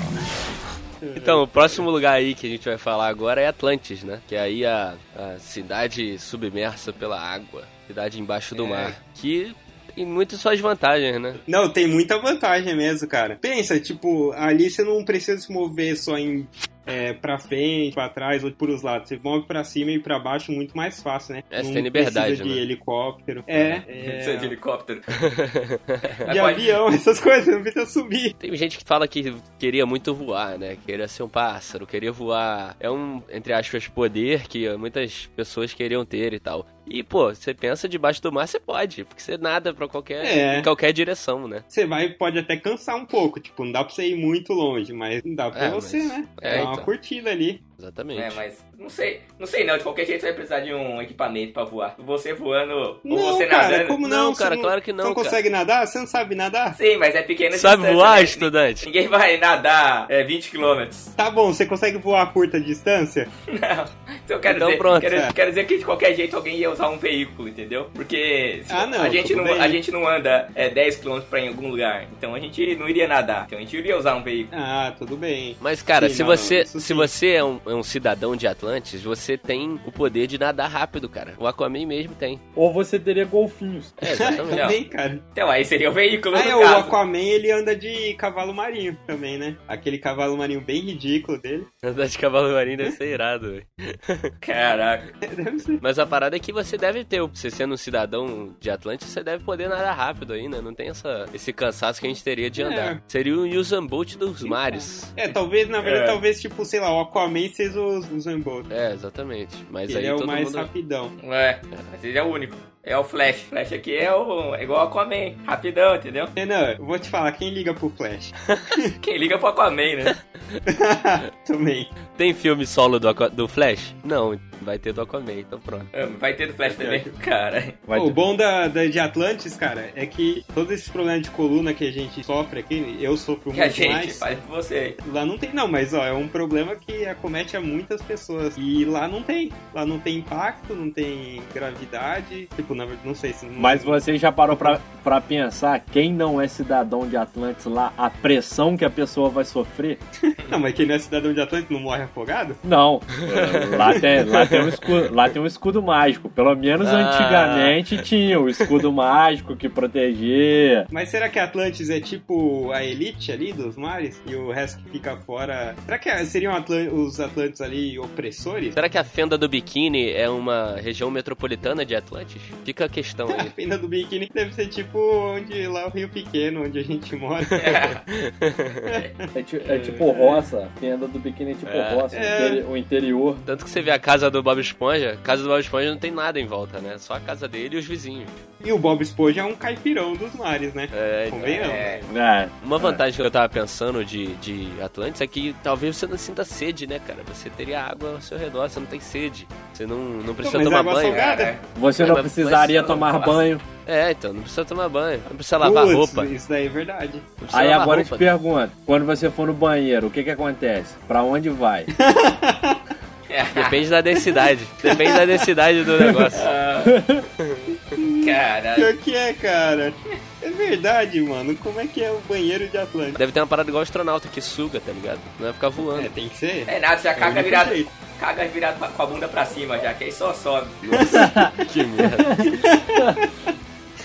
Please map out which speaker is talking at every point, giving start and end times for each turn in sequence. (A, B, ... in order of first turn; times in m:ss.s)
0:01.0-0:01.9 A
0:01.2-0:11.4 B
0:08.6-0:08.9 C
0:11.4-0:24.5 A
0:21.5-0:22.6 B
0:23.5-0:23.8 B
0:23.9-0:25.1 C
0:25.2-0:26.2 B
0:26.2-0:26.7 C
0:26.3-0:28.3 A
0:28.4-0:41.6 B
0:40.2-0:40.7 A
0:41.7-0:47.6 A
0:45.5-0:46.9 B
0:46.4-0:46.7 C
0:47.8-0:48.4 B
0:48.1-0:54.0 C
0:53.0-0:56.8 A
0:54.0-0:55.4 B
0:56.7-1:01.1 C
0:57.5-0:58.9 B
1:01.2-1:03.3 A
1:03.5-1:14.5 C
1:04.5-1:05.2 B
1:08.7-1:09.8 A
1:14.5-1:17.1 A
1:15.6-1:22.4 B
1:22.6-1:23.9 D
1:24.0-1:24.8 B
1:24.0-1:25.2 A
1:24.5-1:24.8 C
1:25.3-1:27.0 C
1:26.3-1:31.7 A
1:31.8-1:34.3 B
1:34.4-1:35.1 C
1:35.2-1:35.8 A
1:35.8-1:45.1 B
1:42.6-1:43.0 A
1:44.4-1:48.7 A
1:45.3-1:46.2 C
1:48.7-1:50.7 B
1:49.9-1:51.1 A
1:51.2-1:56.3 C
1:56.4-1:58.9 A
1:59.0-2:00.2 C
2:00.6-2:01.9 A
2:02.1-2:05.9 B
2:05.9-2:07.8 C
2:06.6-2:07.1 A
2:07.9-2:08.2 D
2:07.9-2:14.2 A
2:13.5-2:15.0 C
2:15.0-2:24.0 A
2:23.6-2:30.0 D
2:30.2-2:32.6 A
2:32.6-2:40.9 D
2:33.3-2:34.8 B
2:36.8-2:38.0 B
2:40.9-2:48.8 A
2:48.7-2:53.5 B
2:53.3-2:57.9 A
2:57.6-2:58.0 C
2:58.1-2:58.8 B
2:58.8-2:59.1 A
2:59.3-3:03.4 D
2:59.6-3:00.1 C
3:01.6-3:02.1 B
3:02.1-3:02.6 A
3:03.4-3:08.4 B
3:08.6-3:12.0 A
3:10.9-3:11.9 B
3:11.5-3:12.1 C
3:12.1-3:12.5 D
3:12.6-3:21.3 B
3:20.4-3:21.5 A
3:21.1-3:21.6 C
3:21.7-3:23.6 D
3:22.0-3:26.3 B
3:25.6-3:27.3 A
3:27.4-3:28.3 B
3:27.5-3:31.9 D
3:31.9-3:32.8 A
3:33.3-3:33.8 C
3:33.5-3:36.5 B
3:34.2-3:35.5 A
3:36.0-3:36.3 D
3:36.3-3:37.0 C
3:36.8-3:37.2 D
3:37.4-3:37.7 B
3:38.0-3:43.2 A
3:38.2-3:38.9 C
3:43.2-3:46.1 B
3:45.9-3:47.9 A
3:46.7-3:50.8 C
3:50.8-3:52.6 B
3:50.9-3:51.6 A
3:51.2-3:51.5 D
3:52.0-3:52.5 D
3:52.4-3:53.3 A